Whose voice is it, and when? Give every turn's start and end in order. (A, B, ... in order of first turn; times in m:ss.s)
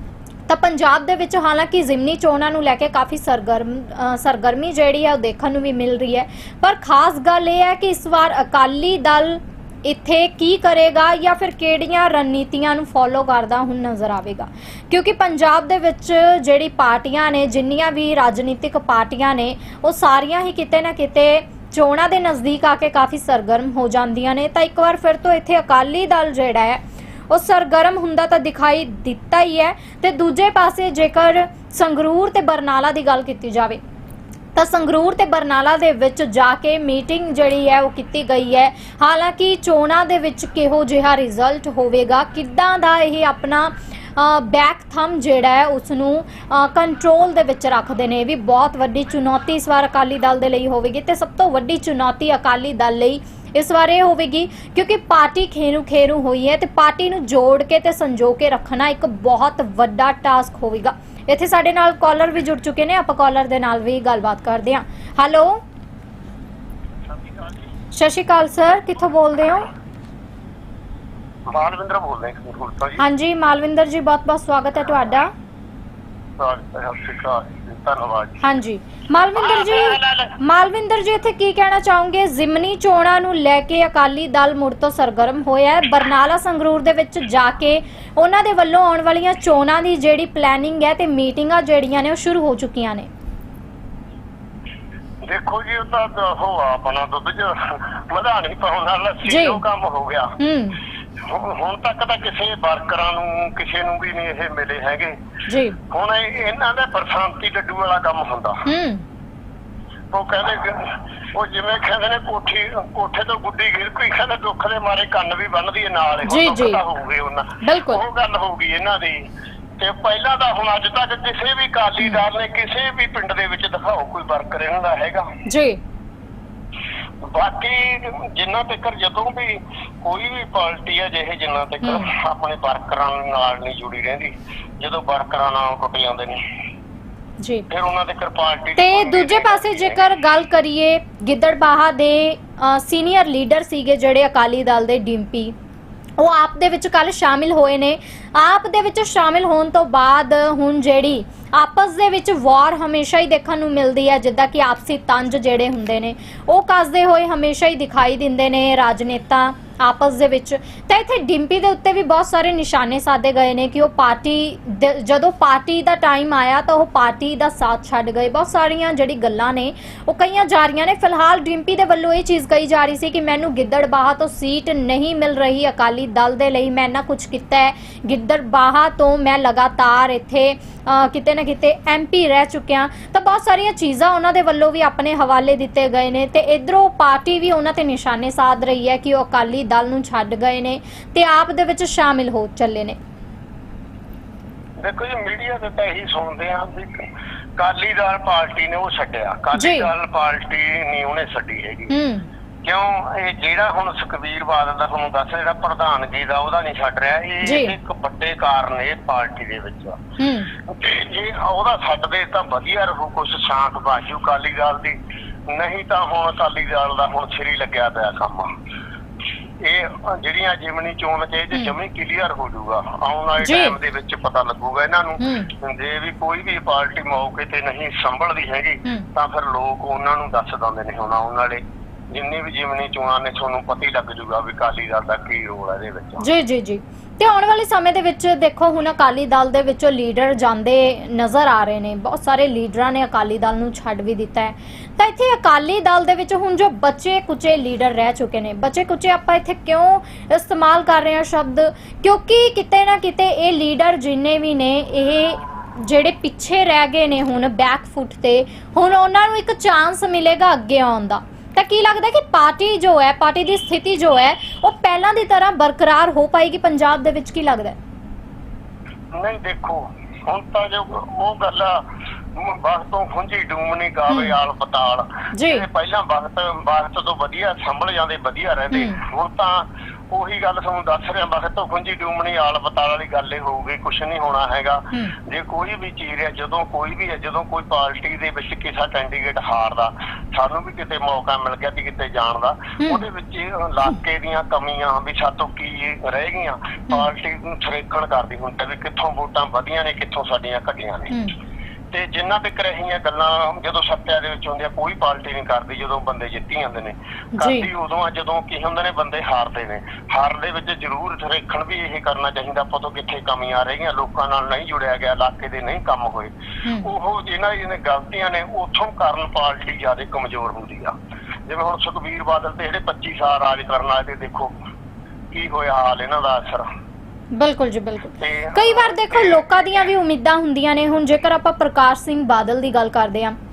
0:00.5-0:33.8 A
0:34.5-1:05.6 A
1:07.9-1:09.7 A
1:11.5-1:13.0 B
1:13.0-1:15.3 A
1:16.4-1:18.4 B
1:18.4-1:33.1 A
1:19.4-1:20.4 B
1:35.2-1:40.4 B
1:39.3-1:39.6 A
1:40.4-1:40.8 A
1:41.2-1:45.2 B
1:45.5-1:45.8 A
1:45.9-1:48.6 B
1:48.6-1:49.0 A
1:50.1-1:59.3 B
1:56.3-1:56.8 A
1:57.6-1:58.0 A
1:59.8-2:05.2 B
2:05.4-2:05.8 A
2:07.2-2:16.4 B
2:11.8-2:12.1 A
2:17.4-2:17.6 A
2:17.7-2:20.0 B
2:18.8-2:25.5 A
2:26.2-3:13.0 A
3:14.8-3:17.0 B
3:17.6-3:21.9 B
3:19.6-3:19.9 A
3:21.9-3:22.2 A
3:22.6-3:30.0 B
3:27.4-3:27.8 A
3:30.2-3:30.5 A
3:30.7-3:35.0 B
3:35.5-3:38.5 B
3:39.6-3:56.2 B
3:43.4-3:43.8 A
3:45.2-3:45.5 A
3:56.2-4:27.8 A
4:29.2-5:01.1 B
4:34.1-4:34.4 A
4:35.3-4:35.6 A
4:38.7-4:39.0 A
5:01.9-5:20.9 B
5:07.4-5:07.7 A
5:21.4-5:24.5 B
5:25.3-5:26.6 B
5:27.3-5:33.4 A
5:28.2-5:29.2 B